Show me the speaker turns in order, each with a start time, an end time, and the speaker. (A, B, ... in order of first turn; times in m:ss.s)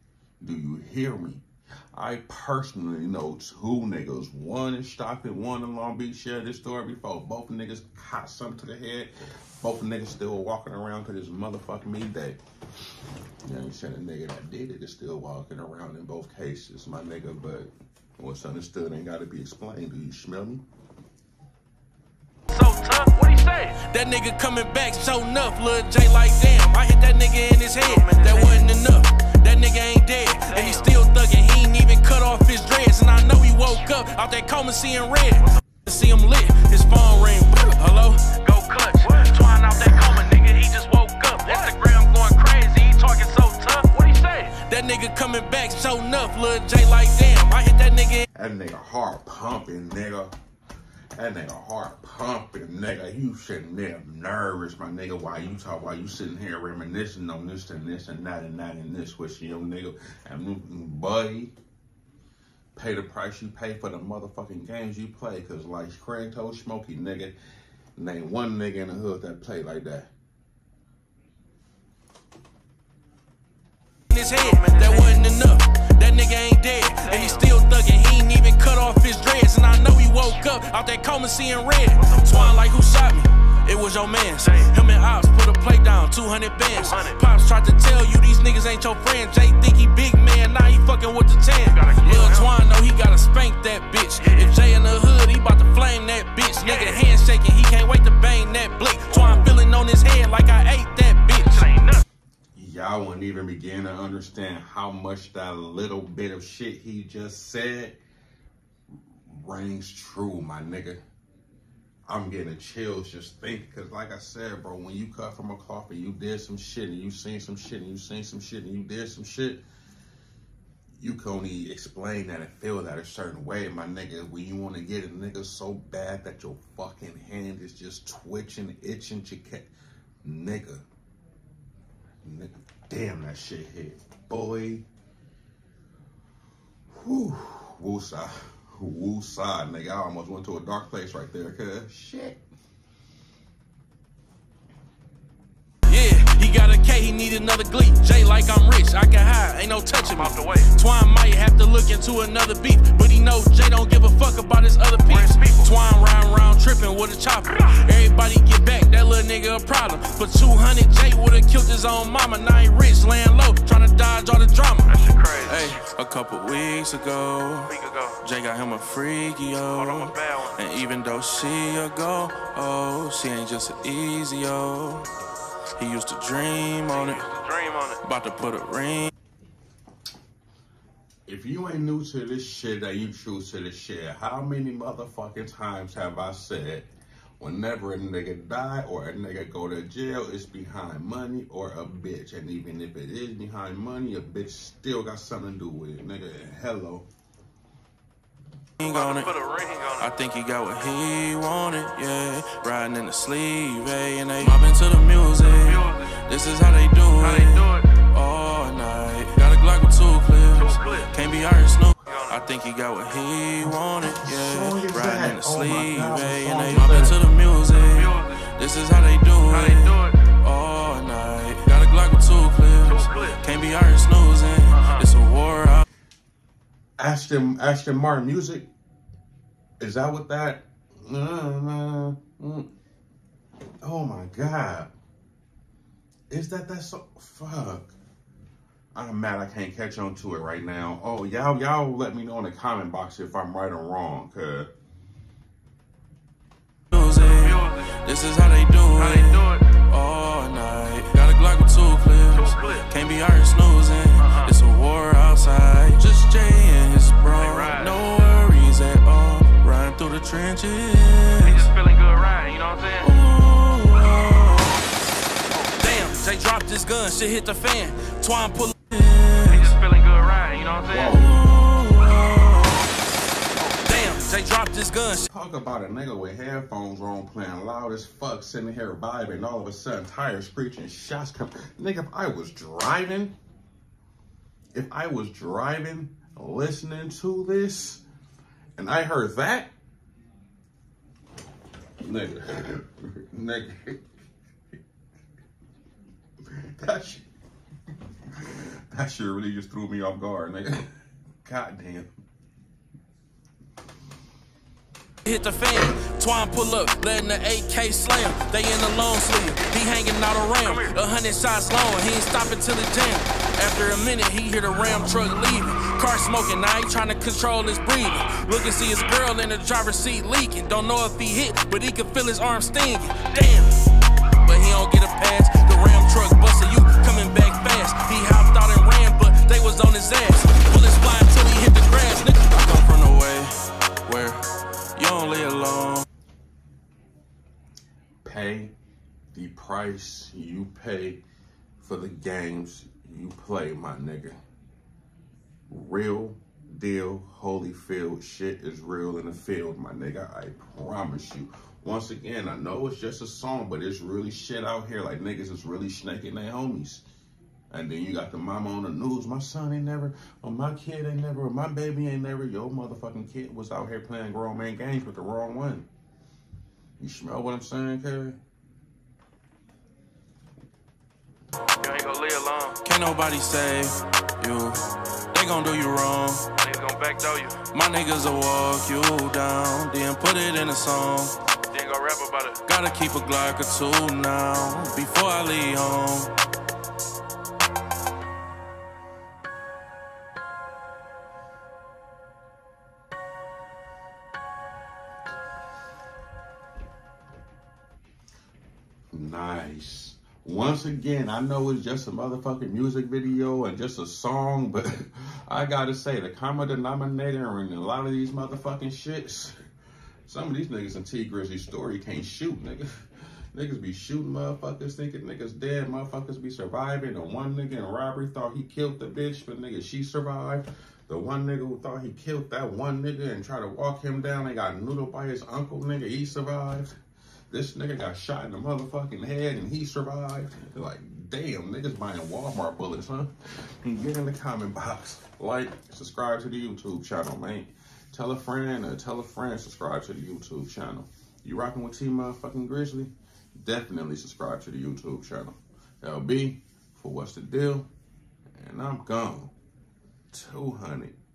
0:00.4-0:12.4 A
0:13.4-0:20.6 A
0:22.5-0:23.7 B
0:23.6-0:43.7 C
0:27.8-0:28.7 B
0:30.5-0:30.9 B
0:39.0-0:39.4 B
0:41.4-0:41.7 B
0:43.0-0:44.5 B
0:44.5-0:48.3 C
0:48.4-0:50.3 A
0:51.2-1:01.5 A
1:02.8-1:07.4 A
1:08.0-1:10.1 A
1:14.1-1:41.7 C
1:14.4-1:15.3 B
1:17.0-1:17.4 B
1:22.0-1:22.6 B
1:24.4-1:24.7 B
1:26.8-1:27.2 B
1:31.7-1:32.5 B
1:34.2-1:34.5 B
1:36.6-1:37.0 B
1:39.1-1:39.5 B
1:41.6-1:42.0 B
1:42.5-1:48.0 A
1:49.3-1:51.0 A
1:52.1-1:59.6 A
2:01.0-2:09.7 A
2:10.2-2:10.8 A
2:12.2-2:14.9 A
2:16.9-2:22.4 A
2:25.9-2:55.1 C
2:30.0-2:30.7 B
2:35.1-2:35.7 B
2:44.9-2:45.8 B
2:47.7-2:48.2 B
2:49.7-2:50.6 B
2:55.8-2:57.3 C
2:56.9-2:58.0 B
2:58.0-2:59.1 C
3:01.3-3:06.9 A
3:07.4-3:17.1 A
3:18.8-3:19.3 C
3:18.8-3:20.1 B
3:20.0-3:45.8 C
3:25.4-3:26.2 B
3:27.2-3:28.0 B
3:30.6-3:31.1 B
3:32.0-3:32.4 B
3:34.2-3:37.2 A
3:37.8-3:38.5 B
3:39.5-3:40.2 B
3:42.9-3:43.4 B
3:44.7-3:45.0 B
3:47.0-3:48.7 A
3:49.8-3:52.7 A
3:53.8-3:54.9 A
3:56.3-3:58.0 A
3:59.0-4:04.7 A
4:06.9-4:21.7 C
4:07.2-4:08.0 B
4:09.0-4:09.7 B
4:12.3-4:12.9 B
4:14.2-4:14.5 B
4:17.4-4:18.0 B
4:21.4-4:23.1 B
4:23.0-4:24.8 C
4:25.5-4:25.9 B
4:25.8-4:29.8 C
4:29.5-4:31.2 B
4:30.9-4:31.4 A
4:31.1-4:32.9 C
4:33.8-4:35.3 C
4:35.2-4:43.3 A
4:44.7-4:48.0 A
4:48.8-4:49.7 A
4:52.0-4:54.0 A
4:56.5-4:57.2 A
4:58.3-5:00.9 A
5:01.4-5:02.1 A
5:05.2-5:23.9 C
5:10.6-5:10.9 B
5:24.4-5:33.5 C
5:34.0-5:34.4 C
5:35.0-5:36.0 C
5:38.2-5:38.7 A
5:39.3-5:41.2 A
5:41.8-5:44.4 A
5:45.7-5:57.0 A
5:57.7-6:05.9 A
6:07.0-6:08.4 A
6:11.8-6:12.8 B
6:12.8-6:16.6 C
6:16.6-6:17.6 B
6:17.5-6:21.4 C
6:21.7-6:22.6 B
6:22.4-6:26.3 C
6:39.1-6:49.6 A
6:50.3-6:53.0 A
6:53.5-7:06.9 A
7:07.5-7:27.9 A
7:28.6-7:29.5 A
7:30.3-7:31.2 A